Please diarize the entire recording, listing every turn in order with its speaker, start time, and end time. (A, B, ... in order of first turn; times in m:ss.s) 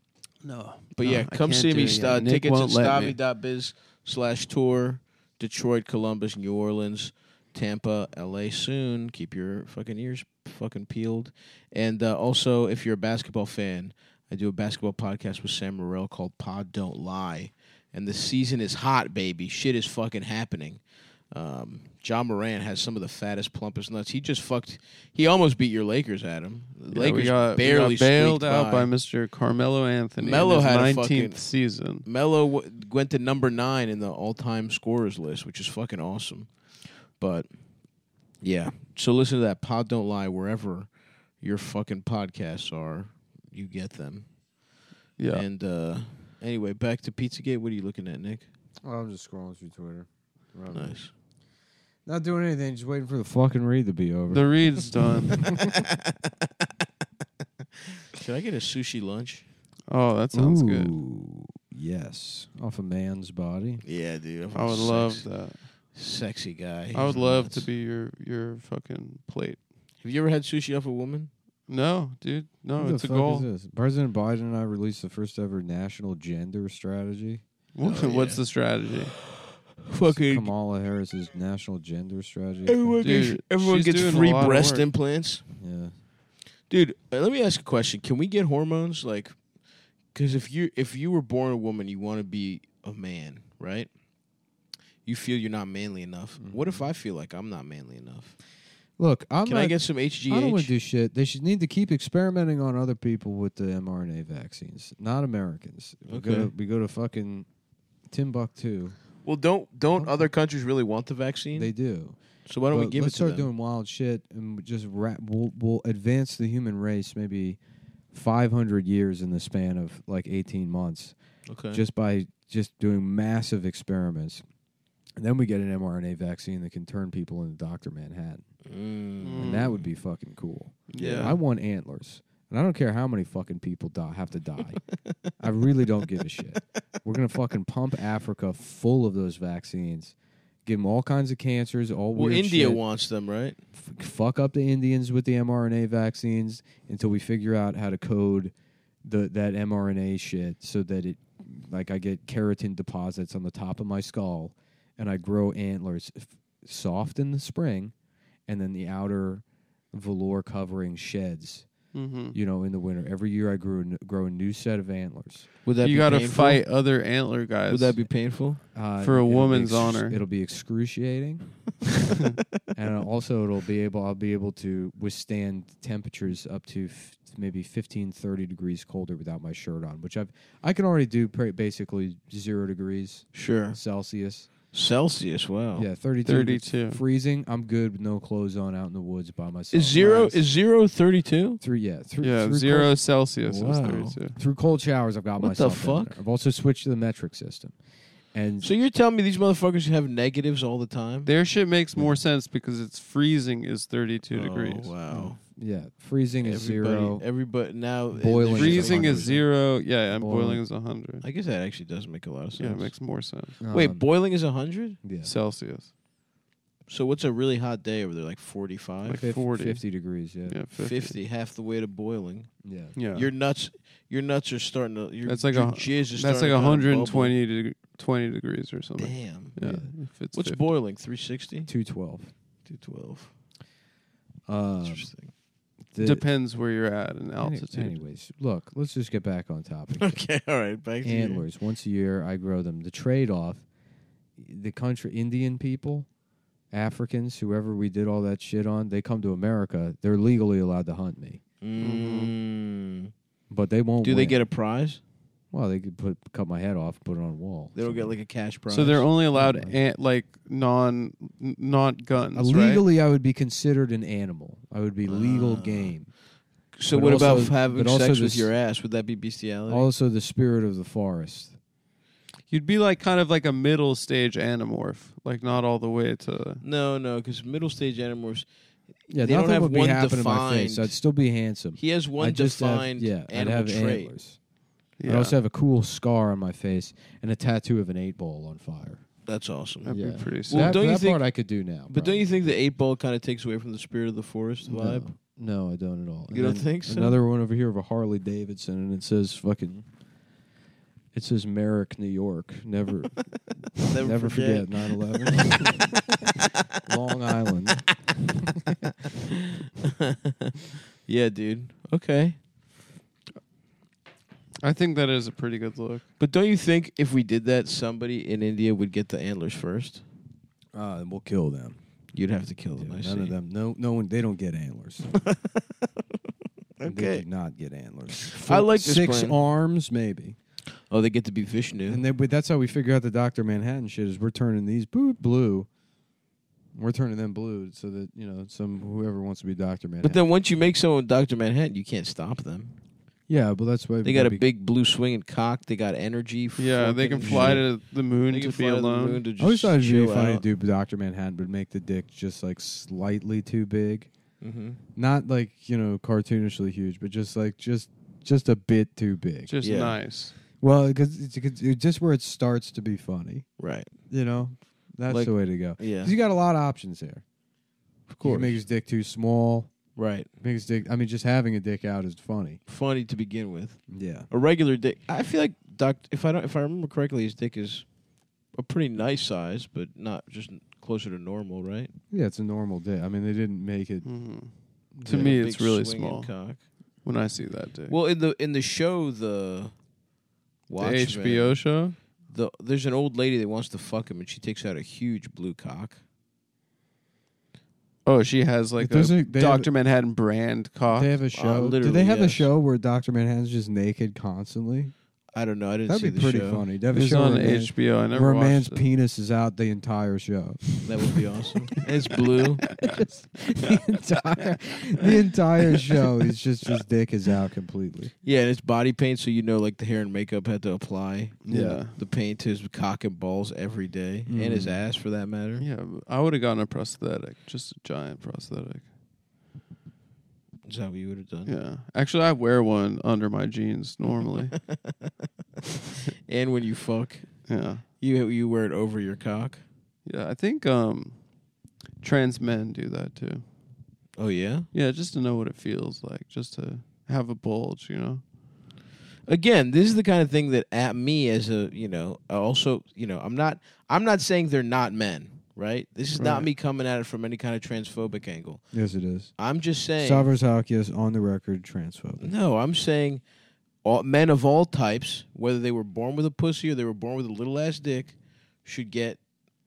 0:00.4-0:03.2 A
0:01.0-0:28.9 B
0:26.9-0:32.1 A
0:30.2-0:31.4 B
0:32.0-0:37.5 B
0:38.4-0:44.3 B
0:45.2-0:45.4 A
0:45.3-0:48.5 B
0:48.8-0:51.0 C
0:50.7-0:51.1 B
0:52.1-0:54.6 C
0:54.3-0:55.4 A
0:55.4-0:55.7 C
0:55.4-0:55.9 B
0:58.1-0:59.4 B
0:59.9-1:00.9 A
1:00.3-1:03.8 C
1:03.8-1:05.4 B
1:04.5-1:05.6 A
1:05.9-1:07.7 B
1:06.9-1:09.6 A
1:10.0-1:11.3 B
1:11.7-1:13.5 A
1:12.8-1:17.4 C
1:17.7-1:19.1 A
1:17.8-1:18.4 B
1:19.8-1:20.5 B
1:20.0-1:23.0 C
1:22.6-1:25.4 B
1:23.0-1:24.9 A
1:25.6-1:25.9 C
1:26.7-1:29.4 B
1:30.1-1:33.9 B
1:35.0-1:38.4 B
1:36.4-1:36.8 C
1:39.0-1:47.5 C
1:39.4-1:40.7 B
1:46.1-1:46.5 B
1:48.1-1:49.0 C
1:49.2-1:51.7 B
1:50.0-1:50.2 C
1:51.6-1:52.2 C
1:52.4-1:53.5 B
1:52.7-1:57.6 C
1:58.1-2:01.2 C
2:01.5-2:01.8 B
2:01.7-2:04.4 C
2:05.2-2:08.4 C
2:08.6-2:09.6 B
2:09.2-2:09.8 A
2:09.4-2:14.8 C
2:10.9-2:11.4 A
2:11.0-2:11.4 B
2:15.4-2:22.8 C
2:22.1-2:23.6 B
2:23.8-2:28.5 C
2:29.0-2:37.9 C
2:38.5-2:41.7 C
2:41.9-2:42.4 A
2:42.3-2:45.5 C
2:45.6-2:46.6 B
2:45.8-2:48.0 A
2:47.7-2:48.6 B
2:48.7-2:51.6 C
2:49.0-2:50.2 A
2:52.7-3:04.5 C
3:03.3-3:03.8 B
3:04.7-3:05.9 B
3:05.7-3:10.4 C
3:06.2-3:07.0 A
3:09.7-3:11.6 B
3:11.6-3:12.9 C
3:12.2-3:14.4 A
3:13.5-3:14.2 B
3:14.4-3:17.7 C
3:15.4-3:16.2 B
3:18.3-3:18.7 C
3:18.6-3:21.3 B
3:21.2-3:24.9 A
3:24.3-3:25.4 B
3:25.1-3:27.2 C
3:26.4-3:29.3 B
3:28.1-3:30.6 C
3:28.5-3:31.2 A
3:31.2-3:32.9 B
3:32.6-3:33.6 A
3:33.6-3:34.1 C
3:33.7-3:35.0 B
3:35.0-3:35.3 C
3:35.2-3:35.9 A
3:36.9-3:39.3 B
3:39.1-3:39.8 A
3:39.1-3:40.6 C
3:40.5-3:41.2 A
3:40.8-3:42.6 B
3:42.6-3:42.9 C
3:43.0-3:43.3 A
3:43.1-3:47.3 B
3:45.2-3:50.6 A
3:49.0-3:49.5 B
3:49.6-3:49.9 C
3:50.3-3:51.7 B
3:51.6-3:52.3 C
3:52.6-3:53.3 B
3:54.5-3:55.1 C
3:54.8-3:55.3 B
3:55.9-3:56.2 C
3:56.0-3:58.0 A
3:57.4-4:00.2 C
4:00.0-4:01.4 B
4:01.0-4:03.6 C
4:04.4-4:06.1 C
4:06.7-4:11.4 C
4:11.6-4:13.1 B
4:11.8-4:12.3 A
4:13.5-4:14.4 C
4:14.0-4:15.0 B
4:15.5-4:18.1 C
4:17.7-4:19.1 B
4:18.7-4:22.8 A
4:19.3-4:19.7 C
4:22.4-4:26.1 C
4:25.1-4:25.9 B
4:26.8-4:29.9 B
4:26.9-4:28.5 C
4:29.7-4:31.5 C
4:32.5-4:36.6 A
4:36.6-4:38.4 B
4:39.1-4:44.4 C
4:39.2-4:41.0 B
4:41.8-4:44.2 B
4:45.0-4:45.4 A
4:45.0-4:49.0 C
4:49.2-4:49.9 B
4:49.9-4:50.8 A
4:49.9-4:52.3 C
4:50.5-4:51.3 B
4:51.9-4:55.1 B
4:54.6-4:59.8 C
4:56.3-4:57.2 B
5:01.1-5:03.2 C
5:03.9-5:06.5 B
5:04.0-5:06.0 C
5:06.8-5:07.9 C
5:09.6-5:12.4 B
5:14.6-5:16.0 A
5:16.2-5:20.0 B
5:20.7-5:21.8 C
5:22.1-5:23.4 B
5:22.8-5:25.1 C
5:26.8-5:27.2 B
5:26.8-5:30.4 C
5:28.2-5:29.4 B
5:30.9-5:32.0 B
5:31.9-5:35.7 C
5:36.7-5:40.2 C
5:40.0-5:42.7 B
5:43.3-5:44.4 C
5:44.0-5:47.7 B
5:46.6-5:49.2 A
5:47.2-5:47.6 C
5:48.3-5:50.4 B
5:49.4-5:54.1 C
5:54.4-5:54.8 B
5:55.0-5:59.5 C
5:59.4-6:00.3 A
5:59.6-6:00.0 B
6:00.6-6:03.5 C
6:03.6-6:03.9 B
6:04.1-6:07.2 C
6:05.1-6:06.1 B
6:08.1-6:08.6 B
6:08.2-6:09.7 C
6:10.0-6:10.3 B
6:10.4-6:12.6 C
6:12.7-6:17.9 B
6:13.9-6:14.3 C
6:18.6-6:21.9 B
6:22.1-6:24.1 C
6:24.0-6:24.5 A
6:24.9-6:25.4 C
6:25.0-6:26.3 A
6:25.1-6:26.6 B
6:27.0-6:28.0 A
6:27.9-6:29.7 B
6:30.7-6:31.6 B
6:30.8-6:32.0 A
6:32.3-6:36.0 B
6:38.0-6:41.1 A
6:38.8-6:39.7 C
6:40.8-6:44.9 C
6:41.3-6:42.5 B
6:45.3-6:46.6 B
6:45.9-6:50.7 C
6:46.9-6:48.8 A
6:50.8-6:52.7 B
6:52.8-6:58.1 C
6:58.2-7:05.6 B
7:01.4-7:01.9 A
7:01.5-7:01.8 C
7:04.3-7:04.8 C
7:05.6-7:08.8 A
7:10.6-7:11.5 B
7:11.4-7:14.6 A
7:14.5-7:14.9 B
7:16.3-7:17.5 B
7:17.5-7:17.8 A
7:18.0-7:19.6 B
7:20.1-7:21.2 A
7:22.0-7:23.4 A
7:24.2-7:24.7 B
7:24.7-7:28.2 A
7:29.3-7:38.6 B
7:36.2-7:36.5 A
7:38.7-7:39.3 C
7:39.4-7:40.3 B
7:40.0-7:42.2 C
7:42.2-7:43.2 B
7:43.8-7:49.2 B